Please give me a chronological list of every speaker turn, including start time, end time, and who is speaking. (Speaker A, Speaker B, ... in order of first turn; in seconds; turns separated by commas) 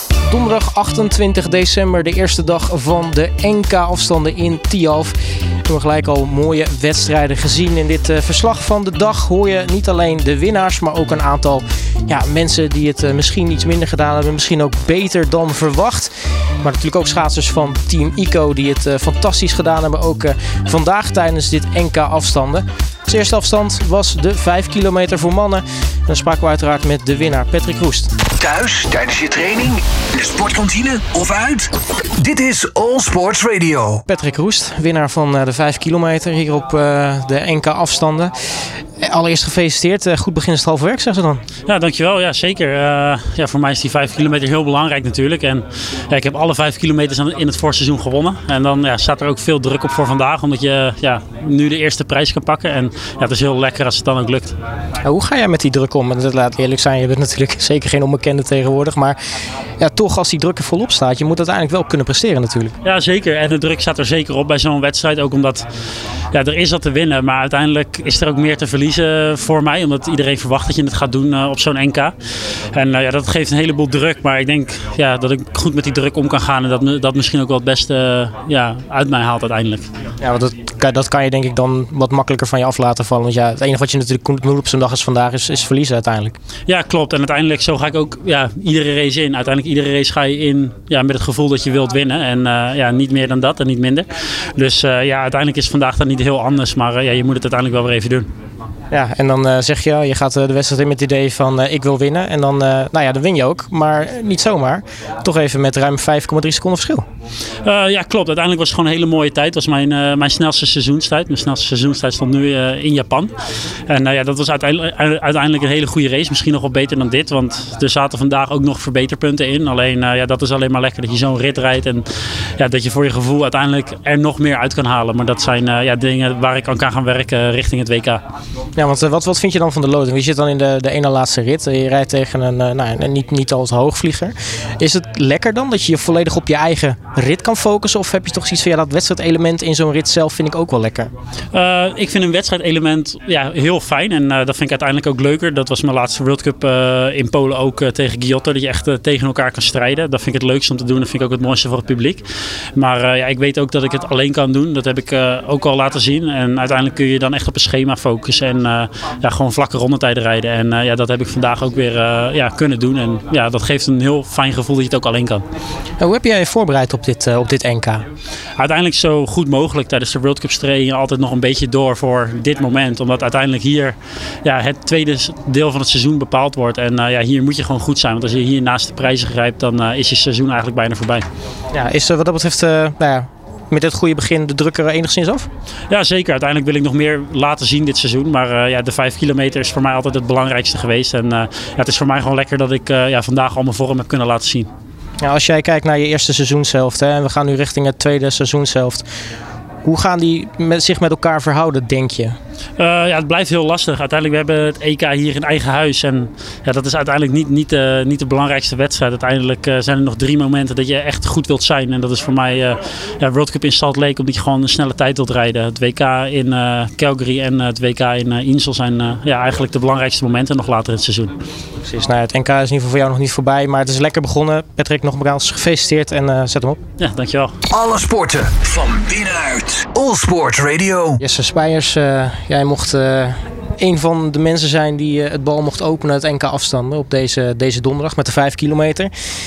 Speaker A: 0.3-5.2, Speaker A: 5.7-28.1, Speaker B: 28.4-34.0, Speaker A: 34.1-38.3, Speaker A: 39.0-41.4, Speaker C: 41.7-54.6, Speaker A: 55.0-59.2, Speaker A: 59.8-62.8, Speaker C: 62.8-65.7, Speaker C: 66.3-72.2, Speaker C: 72.7-79.9, Speaker A: 80.2-86.3, Speaker C: 86.7-98.3, Speaker A: 98.9-107.0, Speaker C: 107.6-113.3, Speaker C: 113.9-122.1, Speaker C: 122.6-128.2, Speaker A: 128.8-141.1, Speaker C: 141.5-152.2, Speaker C: 152.8-165.4, Speaker A: 166.0-168.1, Speaker C: 168.6-181.3, Speaker A: 181.7-185.5, Speaker C: 185.9-194.7, Speaker A: 195.2-199.0, Speaker A: 199.8-202.4, Speaker C: 202.8-221.3, Speaker A: 221.8-226.8, Speaker C: 227.0-227.5, Speaker B: 227.7-231.2, Speaker A: 231.2-239.1